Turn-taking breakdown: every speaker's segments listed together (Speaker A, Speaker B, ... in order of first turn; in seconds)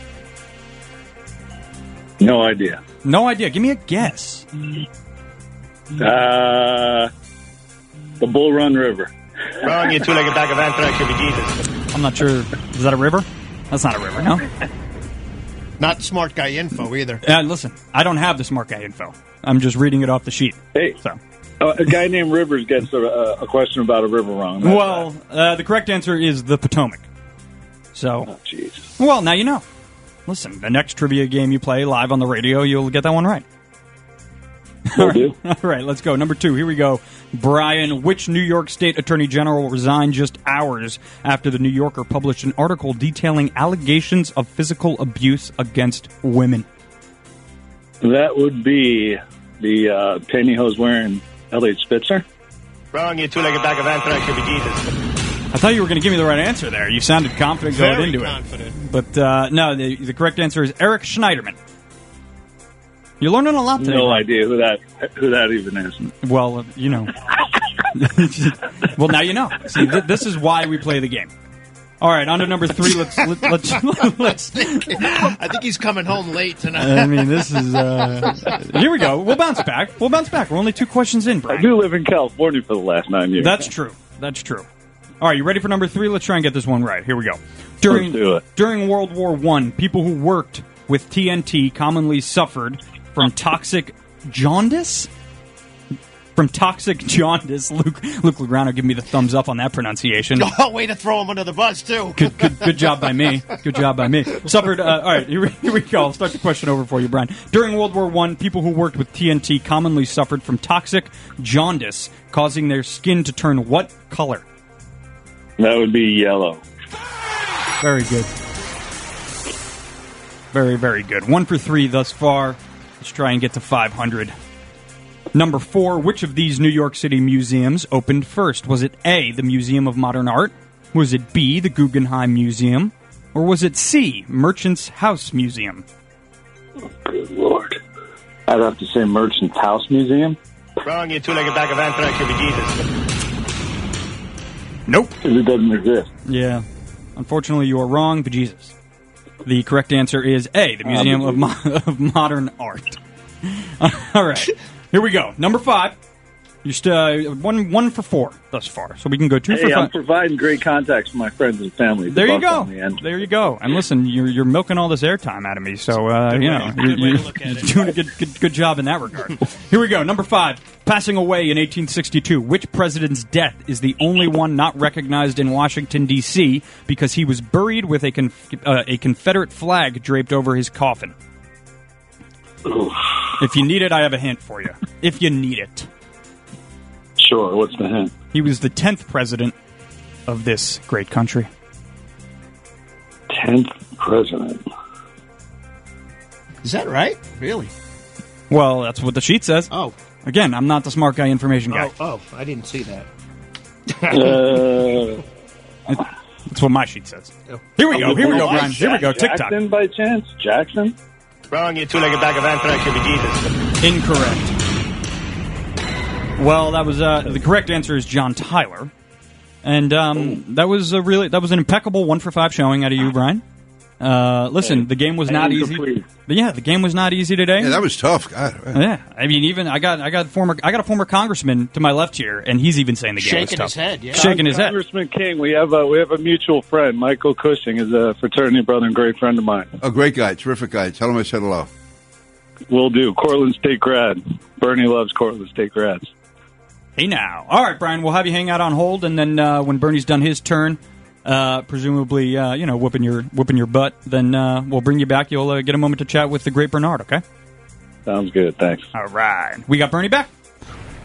Speaker A: 2.2-2.8, 6.0-7.1, 8.2-9.1, 21.6-25.1, 28.3-28.8, 35.0-35.3, 48.0-52.2, 63.8-66.0, 81.5-83.6, 87.9-88.4, 115.6-116.6, 137.0-137.8, 138.5-140.4, 145.2-146.1, 150.8-151.4, 159.5-163.0, 182.7-182.9, 187.2-188.1, 193.3-194.6, 204.1-205.2, 207.9-210.9, 224.6-226.0, 234.1-239.7, 242.7-246.1, 258.1-258.8
Speaker B: 3.0-4.5, 11.9-14.5, 17.2-21.2, 24.6-27.0, 27.9-28.3, 29.0-29.6, 30.2-33.4, 34.9-46.6, 55.5-61.6, 63.2-64.3, 66.0-67.1, 67.9-71.3, 72.0-75.3, 76.8-81.7, 83.4-84.7, 85.2-95.1, 96.3-100.5, 102.2-114.4, 117.8-118.3, 120.5-124.3, 125.3-135.8, 144.9-145.1, 146.3-146.6, 147.2-148.7, 149.4-155.9, 156.6-159.9, 162.1-181.1, 183.4-185.9, 188.3-189.5, 190.3-191.5, 198.5-199.7, 200.2-201.9, 205.9-209.6, 213.8-214.6, 216.4-218.9, 219.6-223.4, 224.0-227.8, 228.7-234.8, 247.0-257.2, 258.9-260.3
Speaker C: 9.6-11.6, 52.9-54.9, 140.8-142.8, 211.5-213.4
Speaker D: 15.8-17.2, 57.7-58.8, 74.5-78.0, 100.4-103.1, 166.3-167.9, 196.6-197.7, 201.7-203.1, 203.9-204.3, 207.5-208.9, 233.2-234.2
Speaker E: 227.6-228.8, 239.8-241.7